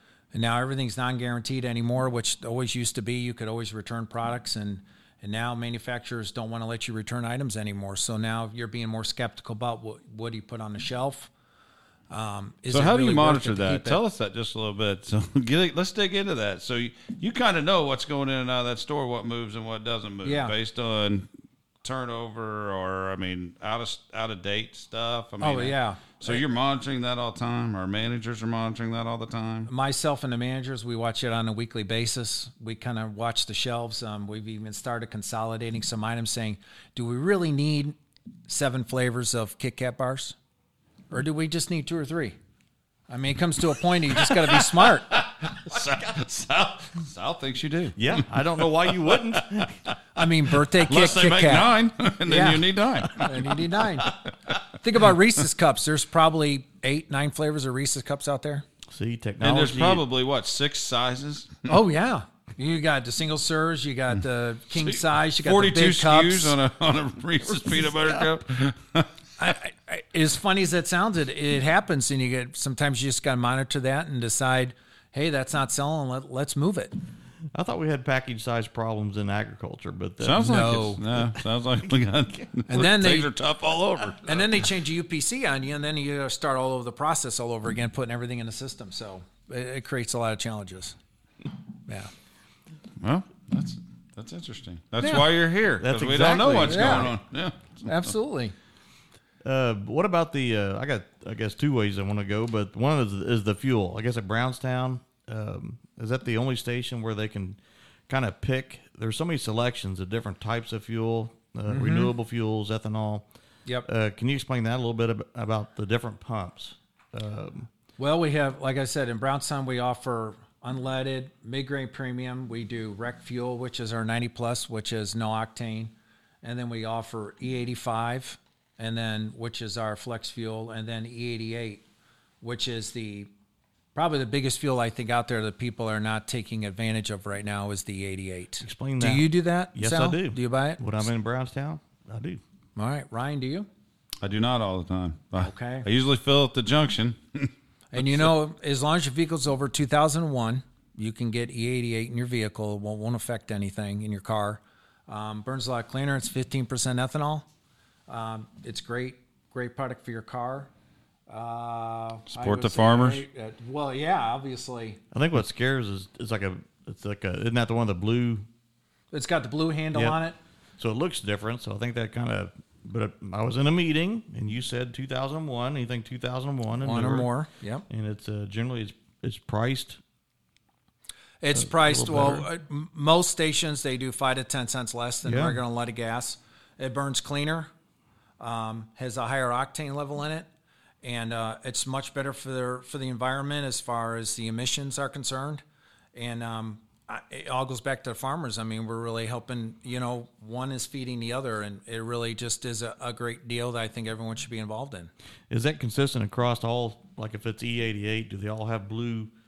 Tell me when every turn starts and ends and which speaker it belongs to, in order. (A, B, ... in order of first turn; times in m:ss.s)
0:00.3-0:11.3 A
0:12.1-0:14.0 A
0:12.7-0:21.3 B
0:20.2-0:20.6 A
0:21.8-0:29.7 B
0:25.4-0:26.4 A
0:29.7-0:38.0 A
0:38.5-0:40.4 A
0:41.1-0:42.4 A
0:43.1-0:45.2 A
0:44.1-0:49.4 B
0:48.0-0:49.8 C
0:50.2-0:51.7 A
0:50.8-0:54.3 B
0:52.3-0:54.2 A
0:54.7-0:58.6 A
0:58.9-1:00.0 C
0:59.4-1:01.7 B
1:01.7-1:06.6 A
1:04.8-1:09.5 B
1:09.4-1:17.0 A
1:17.5-1:20.7 C
1:20.2-1:24.6 B
1:20.4-1:21.0 A
1:22.7-1:23.3 A
1:24.2-1:31.0 A
1:33.0-1:38.1 B
1:35.0-1:35.3 A
1:35.8-1:37.1 C
1:36.4-1:37.2 A
1:37.8-1:38.6 A
1:39.4-1:53.2 C
1:51.7-1:52.1 A
1:53.8-1:57.7 C
1:58.0-2:11.8 A
2:12.4-2:13.3 A
2:14.0-2:21.1 A
2:18.6-2:22.4 C
2:22.8-2:23.7 A
2:24.2-2:28.3 B
2:25.4-2:25.9 A
2:27.9-2:37.5 A
2:38.1-2:40.7 A
2:41.3-2:45.0 A
2:42.3-2:43.2 B
2:45.1-2:48.5 C
2:49.1-2:50.4 A
2:49.9-2:50.2 C
2:50.8-2:57.3 C
2:56.8-2:57.9 A
2:57.9-3:00.0 C
3:01.4-3:07.7 A
3:01.6-3:02.5 C
3:05.2-3:05.6 C
3:08.4-3:10.5 A
3:11.0-3:15.6 A
3:16.2-3:25.1 A
3:25.5-3:29.3 C